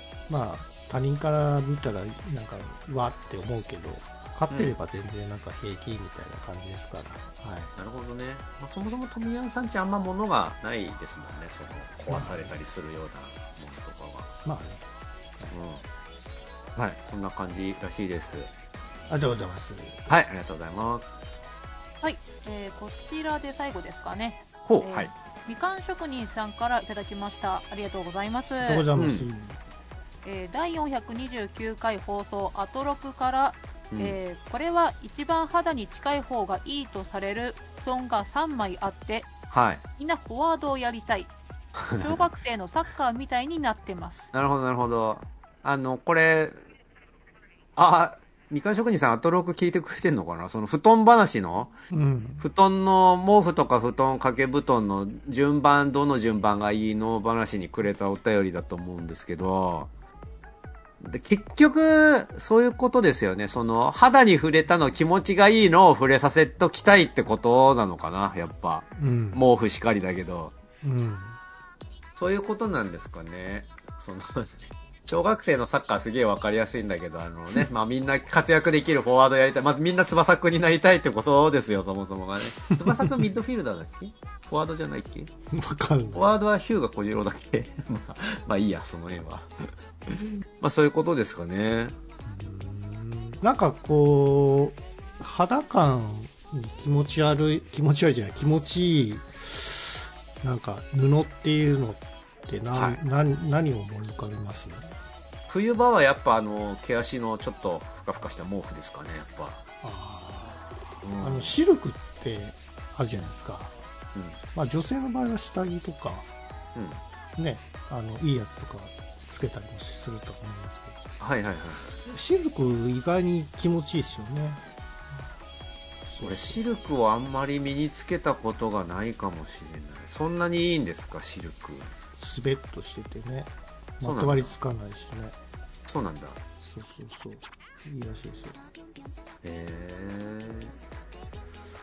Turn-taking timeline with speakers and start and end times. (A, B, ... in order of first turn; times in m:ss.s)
0:00.3-0:07.7 A
0:04.5-0:04.8 B
0:07.8-0:14.3 B
0:12.1-0:12.5 A
0:14.4-0:14.8 A
0:15.5-0:15.8 B
0:16.8-0:18.5 B
0:19.1-0:20.0 A
0:20.1-0:21.2 B
0:22.0-0:28.9 C
0:24.6-0:25.1 B
0:28.6-0:29.6 A
0:28.9-0:29.3 B
0:30.2-0:39.3 C
0:33.9-0:34.2 B
0:39.5-0:39.8 B
0:40.0-0:41.3 C
0:41.8-0:42.2 B
0:42.0-0:44.3 C
0:44.3-0:46.6 B
0:47.8-0:51.7 B
0:51.9-0:52.4 A
0:52.4-0:59.9 B
1:01.0-1:10.5 B
1:09.0-1:09.4 A
1:10.8-1:11.4 A
1:12.1-1:25.3 B
1:22.7-1:23.1 A
1:25.5-1:26.4 A
1:26.1-1:32.0 B
1:32.2-1:44.9 A
1:42.7-1:43.0 B
1:45.5-1:49.6 B
1:49.8-1:53.8 A
1:51.0-1:51.6 B
1:54.1-1:54.4 B
1:54.5-1:56.3 A
1:56.7-1:57.0 B
1:57.4-2:01.0 A
2:01.2-2:01.9 B
2:02.0-2:04.6 A
2:06.0-2:06.6 A
2:06.2-2:11.9 B
2:12.2-2:15.3 A
2:14.0-2:14.5 B
2:15.9-2:16.4 B
2:16.6-2:18.6 A
2:19.4-2:20.7 B